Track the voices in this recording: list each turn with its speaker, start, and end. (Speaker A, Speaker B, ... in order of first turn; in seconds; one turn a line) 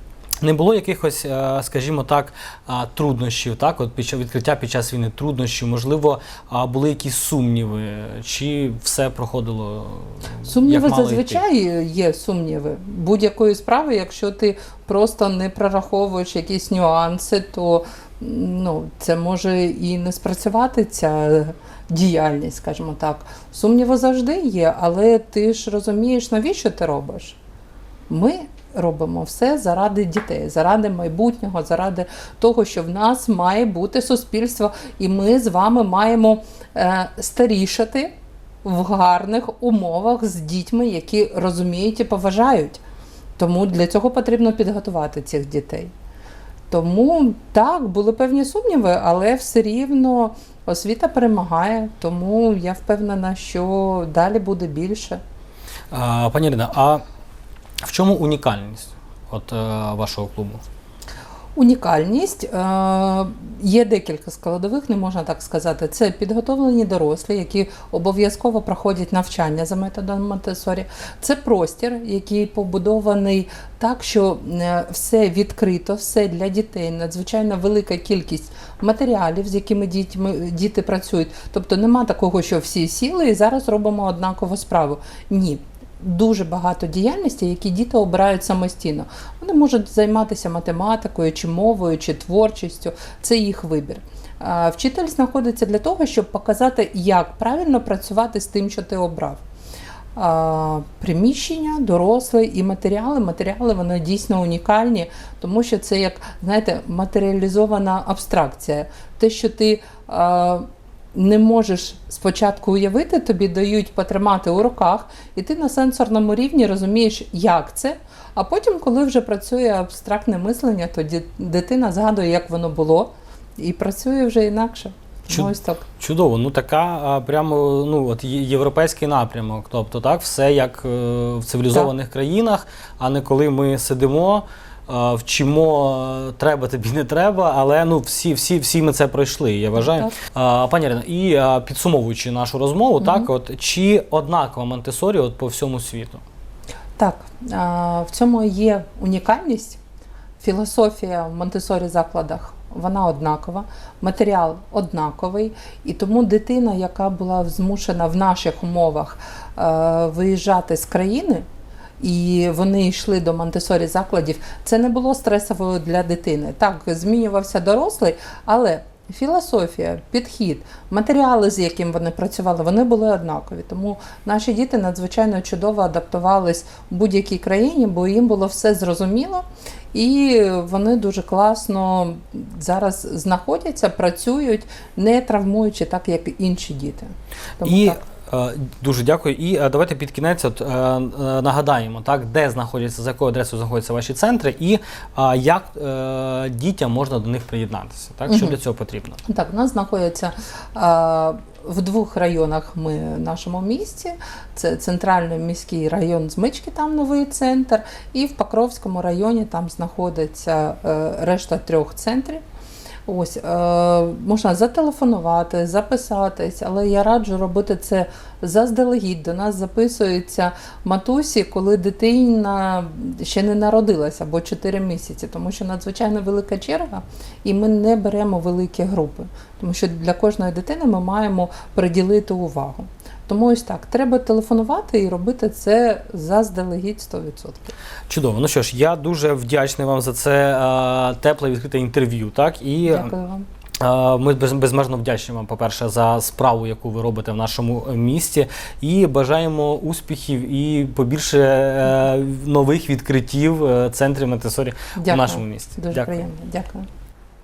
Speaker A: 0.4-11.4
Speaker B: 10.4-27.4
Speaker B: 28.1-38.1
Speaker B: 38.6-42.8
Speaker B: 43.4-45.9
Speaker B: 46.7-55.2
Speaker A: 55.9-57.0
Speaker A: 57.8-60.6
Speaker B: 61.5-99.4
Speaker B: 100.2-125.8
Speaker A: 125.3-146.2
Speaker B: 139.8-140.1
Speaker B: 143.0-143.3
Speaker B: 147.0-149.8
Speaker B: 150.4-161.4
Speaker B: 162.0-188.0
Speaker A: 187.6-199.2
Speaker B: 198.3-198.6
Speaker B: 199.3-212.4
Speaker B: 213.1-237.7
Speaker A: 238.1-243.1
Speaker B: 242.9-243.4
Speaker A: 243.8-256.2
Speaker B: 255.0-256.9